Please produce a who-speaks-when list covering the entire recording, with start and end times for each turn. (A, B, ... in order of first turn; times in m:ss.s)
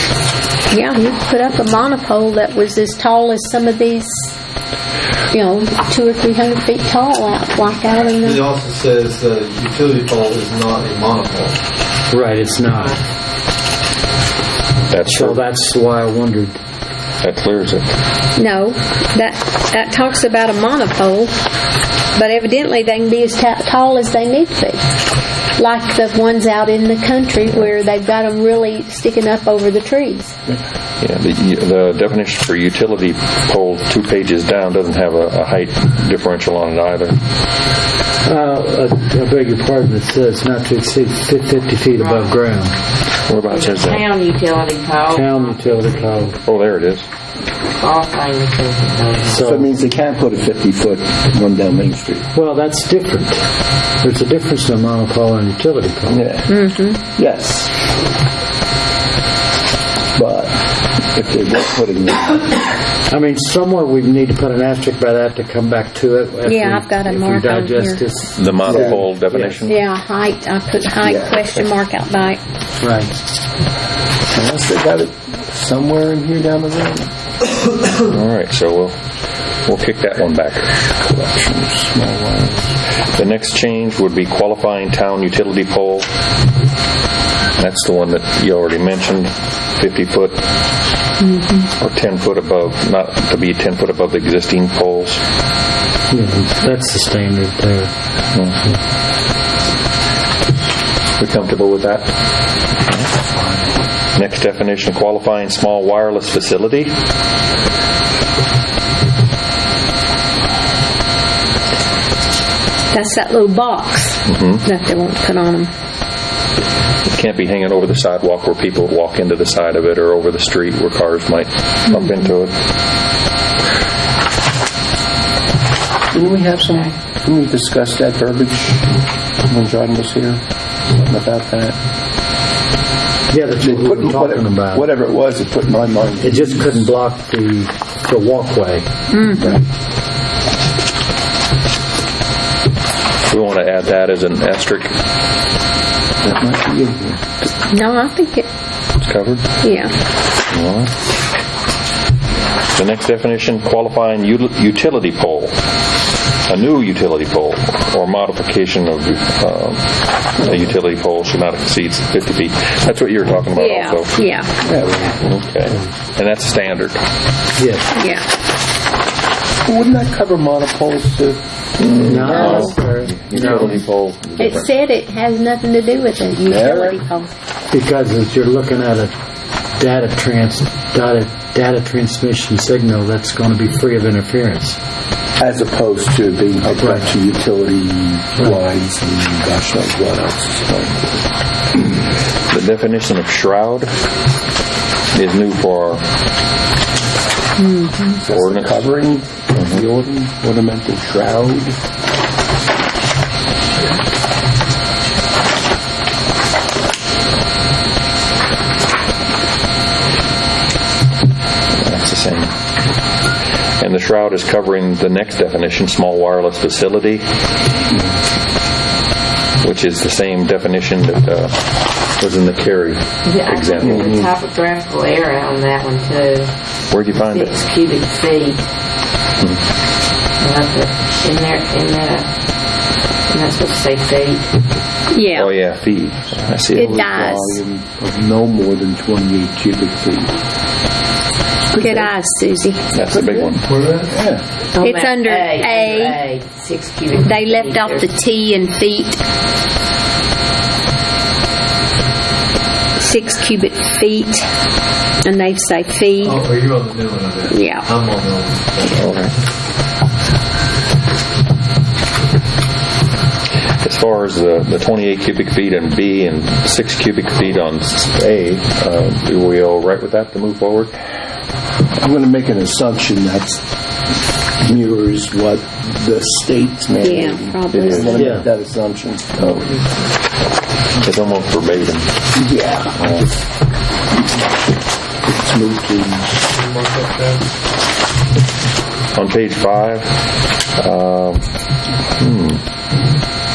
0:00.7-0:04.3 A
0:05.3-0:08.4 A
0:08.3-0:11.6 B
0:12.1-0:13.0 C
0:14.9-0:15.4 D
0:15.1-0:16.6 C
0:17.2-0:17.9 D
0:18.4-0:21.4 A
0:22.1-0:24.8 A
0:25.6-0:30.4 A
0:31.0-0:37.2 D
0:38.2-0:42.8 C
0:42.0-0:42.4 E
0:43.3-0:44.0 D
0:43.5-0:46.4 E
0:45.1-0:46.4 C
0:46.5-0:47.1 D
0:47.7-0:49.5 E
0:49.3-0:49.7 C
0:49.4-0:52.2 F
0:52.3-0:53.5 C
0:54.0-0:56.3 C
0:56.1-0:57.7 F
0:56.5-0:57.0 A
1:00.2-1:02.6 F
1:03.1-1:09.6 C
1:06.4-1:08.1 A
1:08.4-1:09.8 D
1:08.6-1:09.1 F
1:09.7-1:12.4 A
1:11.0-1:11.6 F
1:12.8-1:13.2 C
1:14.3-1:17.1 F
1:18.1-1:19.0 D
1:19.7-1:20.7 D
1:21.0-1:22.7 F
1:23.1-1:26.1 D
1:27.6-1:30.4 D
1:31.2-1:31.7 A
1:31.8-1:35.2 D
1:36.1-1:37.9 C
1:41.2-1:42.2 D
1:44.2-1:46.9 D
1:52.9-1:55.7 A
1:54.3-1:54.6 D
1:57.0-2:02.5 D
2:01.9-2:02.2 A
2:06.1-2:08.9 F
2:06.7-2:06.9 E
2:09.4-2:11.8 F
2:13.3-2:14.9 C
2:13.6-2:16.9 F
2:16.2-2:18.9 C
2:19.1-2:19.5 A
2:23.3-2:25.0 D
2:26.2-2:27.2 F
2:27.7-2:28.5 A
2:29.0-2:29.5 D
2:29.6-2:30.0 A
2:30.5-2:30.9 D
2:32.7-2:35.6 D
2:36.4-2:44.2 D
2:43.5-2:44.6 A
2:44.6-2:45.2 F
2:45.1-2:47.0 D
2:47.6-2:47.9 C
2:47.9-2:48.3 A
2:49.7-2:52.8 F
2:51.8-2:54.7 D
2:52.0-2:53.8 C
2:54.4-2:57.3 A
2:56.5-2:57.0 F
2:57.7-2:59.1 C
2:59.8-3:04.8 C
3:05.4-3:11.2 F
3:06.8-3:07.1 C
3:12.5-3:13.9 D
3:15.1-3:16.0 D
3:17.6-3:18.3 A
3:18.2-3:21.8 F
3:18.3-3:18.9 D
3:19.6-3:19.8 D
3:31.8-3:32.5 D
3:33.8-3:37.3 D
3:39.6-3:44.1 D
3:43.2-3:46.5 E
3:43.8-3:44.3 F
3:46.9-3:47.5 D
3:47.1-3:48.7 E
3:49.4-3:49.6 D
3:50.4-3:52.3 E
3:53.3-3:54.6 E
3:55.1-3:55.5 A
3:55.4-3:57.0 D
3:56.7-4:00.4 F
3:56.7-3:57.6 A
4:01.7-4:03.0 A
4:02.9-4:03.7 D
4:03.6-4:04.1 B
4:04.1-4:04.4 F
4:04.8-4:08.1 E
4:04.8-4:06.2 A
4:07.2-4:09.2 A
4:13.0-4:14.5 A
4:15.2-4:16.4 A
4:16.3-4:19.0 B
4:17.5-4:17.9 A
4:19.0-4:19.3 D
4:23.8-4:30.9 D
4:32.0-4:33.6 F
4:34.6-4:39.8 F
4:37.0-4:38.3 A
4:38.1-4:38.5 C
4:41.0-4:42.3 D
4:42.4-4:43.4 F
4:43.0-4:43.3 D
4:45.2-4:46.4 F
4:46.5-4:47.5 B
4:49.1-4:50.2 D
4:50.8-4:51.5 D
4:52.2-4:52.6 D